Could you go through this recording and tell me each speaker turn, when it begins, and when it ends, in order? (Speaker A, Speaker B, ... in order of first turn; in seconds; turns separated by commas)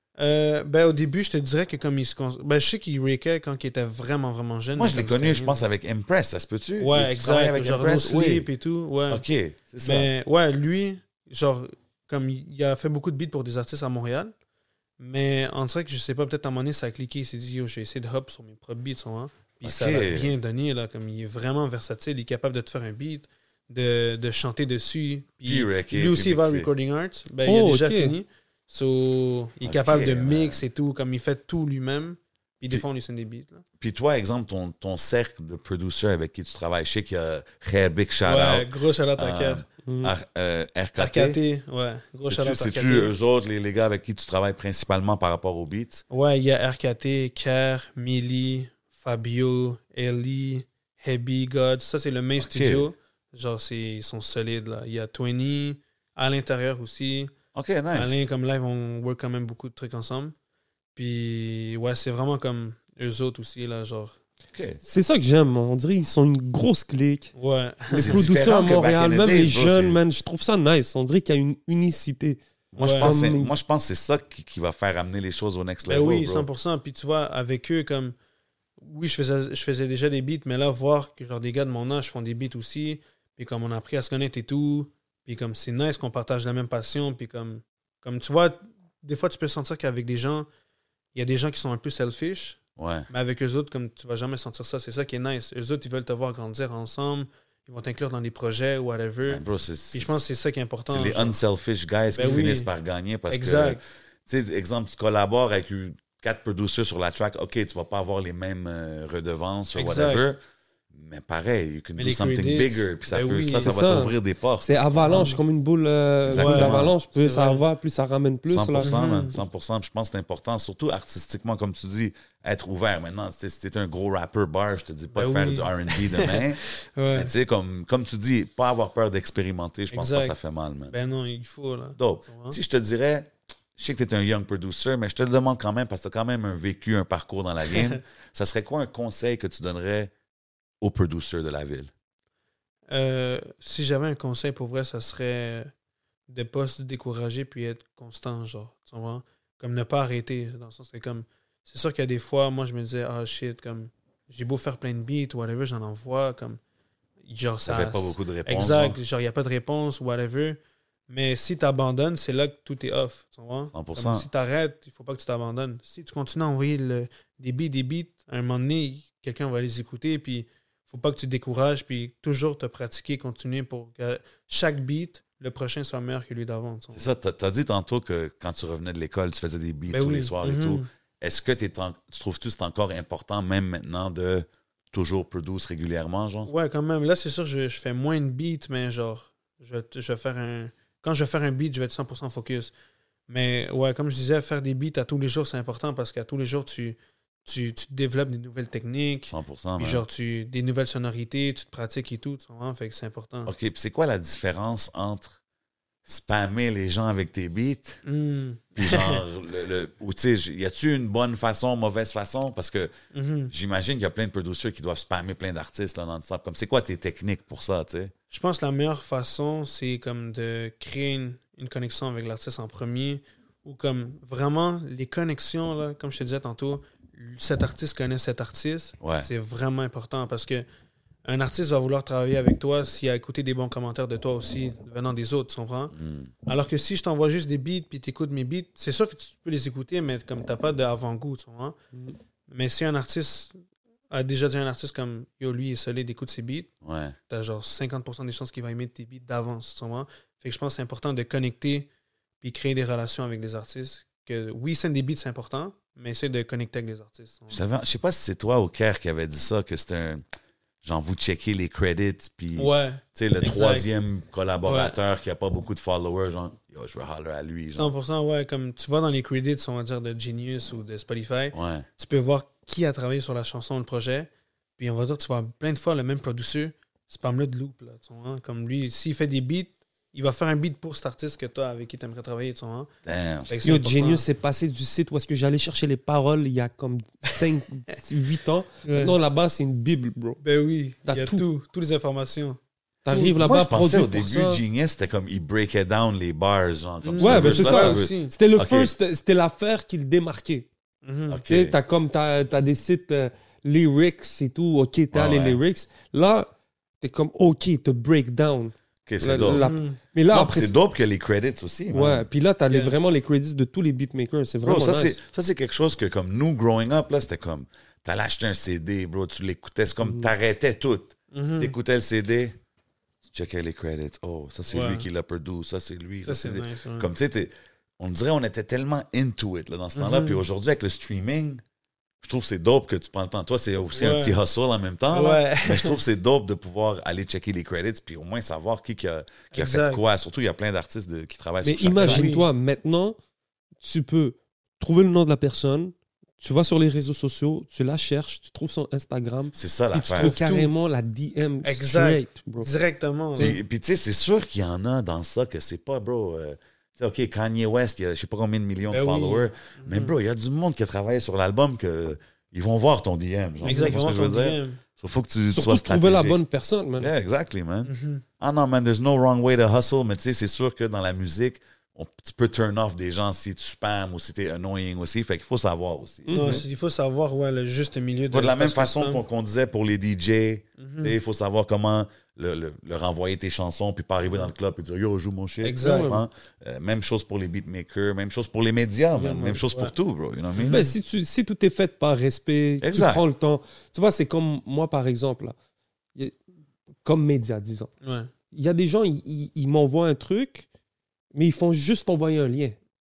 Speaker A: 0.2-5.6, Speaker B: 4.8-8.5, Speaker A: 6.8-9.2, Speaker B: 9.1-10.1, Speaker A: 9.8-14.3, Speaker A: 15.0-33.6, Speaker B: 19.6-20.3, Speaker B: 25.4-26.7, Speaker C: 27.5-28.2, Speaker B: 29.6-30.6, Speaker B: 33.8-41.4, Speaker A: 38.2-39.6, Speaker C: 39.9-40.1, Speaker A: 41.0-43.1, Speaker B: 42.3-46.0, Speaker A: 46.1-57.3, Speaker B: 52.4-52.9, Speaker B: 57.5-58.2, Speaker A: 57.9-60.3, Speaker A: 61.0-64.2, Speaker B: 64.5-64.8, Speaker C: 64.8-67.3, Speaker A: 67.3-68.3, Speaker C: 67.9-72.4, Speaker B: 67.9-70.0, Speaker B: 72.7-76.5, Speaker A: 72.8-73.2, Speaker C: 73.0-73.5, Speaker A: 75.8-78.2, Speaker A: 78.8-90.5, Speaker A: 91.2-101.4, Speaker B: 92.8-93.1, Speaker B: 99.3-100.2, Speaker B: 100.9-110.4, Speaker A: 102.1-102.7, Speaker A: 103.3-103.8, Speaker A: 109.8-110.2, Speaker B: 110.9-115.3, Speaker A: 112.0-113.8, Speaker C: 113.6-119.0, Speaker A: 115.0-115.4, Speaker B: 116.3-117.0, Speaker A: 116.3-117.6, Speaker B: 118.5-126.6, Speaker A: 118.8-119.4, Speaker A: 125.1-127.3, Speaker B: 127.1-130.9, Speaker A: 129.9-130.4, Speaker A: 130.9-132.6, Speaker B: 132.0-140.1, Speaker B: 140.8-141.9, Speaker A: 142.9-145.7, Speaker A: 146.3-156.6, Speaker A: 157.3-177.1, Speaker B: 157.7-159.0, Speaker B: 163.7-164.3, Speaker B: 176.9-186.5, Speaker A: 179.9-180.9, Speaker A: 186.5-192.7, Speaker A: 193.3-203.5, Speaker B: 199.3-200.0, Speaker B: 203.5-205.4, Speaker B: 206.1-208.0, Speaker A: 208.1-209.2, Speaker B: 208.8-212.9, Speaker A: 213.1-213.5, Speaker B: 213.5-218.1, Speaker A: 218.3-230.7, Speaker B: 229.0-229.3, Speaker A: 231.3-235.9, Speaker B: 235.9-236.3, Speaker A: 236.5-241.8, Speaker A: 242.5-243.6, Speaker A: 244.1-246.7, Speaker B: 246.8-247.2, Speaker A: 247.3-251.9, Speaker A: 252.4-257.6, Speaker B: 257.5-260.2, Speaker B: 260.8-267.9, Speaker A: 262.6-263.9, Speaker A: 264.6-264.9, Speaker A: 267.7-282.9, Speaker B: 271.5-271.9, Speaker B: 283.1-283.5, Speaker A: 283.5-284.2, Speaker C: 283.6-290.4, Speaker A: 288.9-289.1, Speaker A: 290.4-292.6, Speaker C: 291.1-291.4, Speaker C: 293.1-294.6, Speaker B: 293.1-298.9, Speaker A: 297.0-298.3, Speaker C: 297.2-300.7, Speaker A: 301.0-301.4, Speaker B: 301.3-301.8, Speaker C: 301.5-306.5, Speaker B: 305.1-305.6, Speaker C: 307.0-310.8, Speaker B: 309.1-309.7, Speaker A: 309.6-310.0, Speaker B: 310.3-312.3, Speaker C: 311.9-315.2, Speaker A: 312.7-312.9, Speaker B: 314.6-322.6, Speaker A: 321.3-321.7, Speaker B: 323.3-331.6, Speaker A: 324.7-325.1, Speaker A: 326.3-327.1, Speaker A: 330.0-330.4, Speaker B: 332.2-342.3, Speaker A: 333.9-334.4, Speaker A: 335.1-336.0, Speaker A: 339.5-340.0, Speaker C: 341.6-343.2, Speaker A: 342.0-342.5, Speaker C: 343.8-352.7, Speaker B: 349.5-350.3, Speaker A: 350.1-350.7, Speaker A: 351.6-353.6, Speaker B: 353.4-366.4, Speaker A: 358.9-360.1, Speaker C: 363.6-364.0, Speaker A: 363.6-364.8, Speaker C: 365.5-367.1, Speaker B: 367.0-376.6, Speaker A: 367.9-368.2, Speaker C: 376.3-376.6, Speaker A: 376.3-379.2, Speaker B: 378.3-390.9, Speaker A: 380.8-381.2, Speaker A: 385.6-386.2, Speaker C: 385.8-386.2, Speaker C: 389.2-389.6, Speaker A: 389.7-389.9, Speaker A: 390.6-390.9, Speaker C: 390.7-395.6, Speaker B: 392.8-393.2, Speaker C: 397.0-397.9, Speaker A: 398.0-398.3, Speaker C: 398.5-400.7, Speaker C: 401.3-402.8